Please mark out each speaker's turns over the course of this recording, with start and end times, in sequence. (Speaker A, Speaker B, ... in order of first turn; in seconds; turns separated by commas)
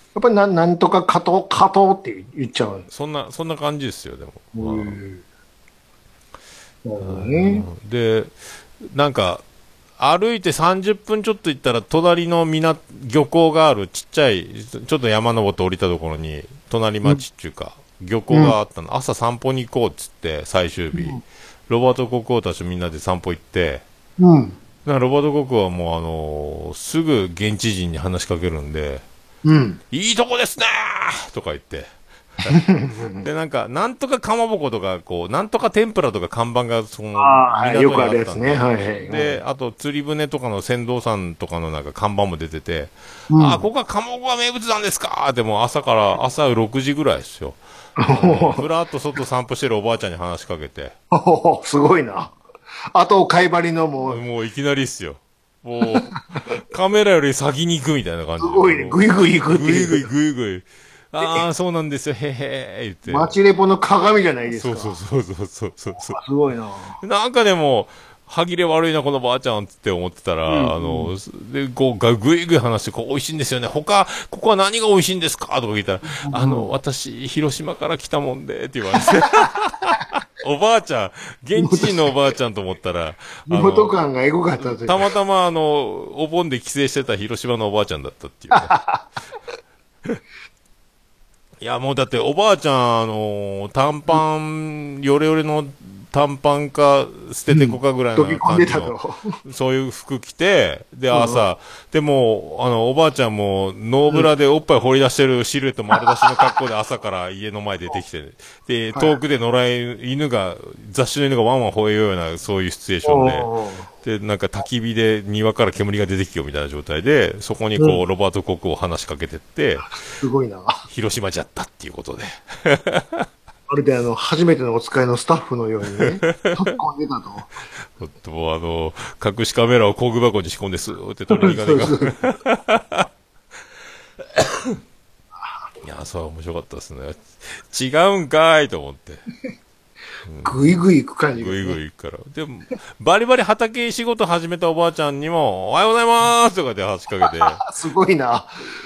Speaker A: 0.1-2.9, Speaker B: 2.9-5.0, Speaker A: 4.5-5.2, Speaker A: 6.8-7.7, Speaker B: 7.0-9.4, Speaker B: 10.0-23.8, Speaker A: 18.3-18.6, Speaker A: 20.9-21.2, Speaker A: 24.2-24.6, Speaker B: 24.8-29.0, Speaker A: 29.4-29.8, Speaker B: 29.9-31.9, Speaker A: 32.5-33.3, Speaker B: 33.2-51.0, Speaker A: 37.1-39.4, Speaker A: 43.3-43.6, Speaker A: 48.0-48.6, Speaker A: 51.1-52.3, Speaker A: 52.9-54.2, Speaker B: 54.0-63.3, Speaker A: 58.4-60.1, Speaker A: 61.2-61.5, Speaker A: 63.0-65.0, Speaker B: 64.5-66.2, Speaker A: 66.0-67.0, Speaker B: 67.0-83.9, Speaker A: 70.5-71.1, Speaker A: 76.1-76.7, Speaker A: 81.5-82.1, Speaker A: 83.5-85.1, Speaker B: 84.6-88.7, Speaker A: 88.5-89.0, Speaker B: 91.6-113.5, Speaker A: 97.5-99.3, Speaker A: 101.1-101.4, Speaker A: 113.0-113.9, Speaker B: 114.0-120.2, Speaker A: 117.8-118.0, Speaker A: 120.0-120.8, Speaker B: 120.9-123.3, Speaker A: 123.7-127.5, Speaker B: 125.9-126.7, Speaker B: 127.9-133.1, Speaker A: 131.3-132.2, Speaker B: 134.3-134.8, Speaker A: 135.4-135.7, Speaker B: 135.8-139.2, Speaker B: 140.2-140.8, Speaker A: 140.4-141.8, Speaker B: 141.3-147.6, Speaker A: 147.2-148.5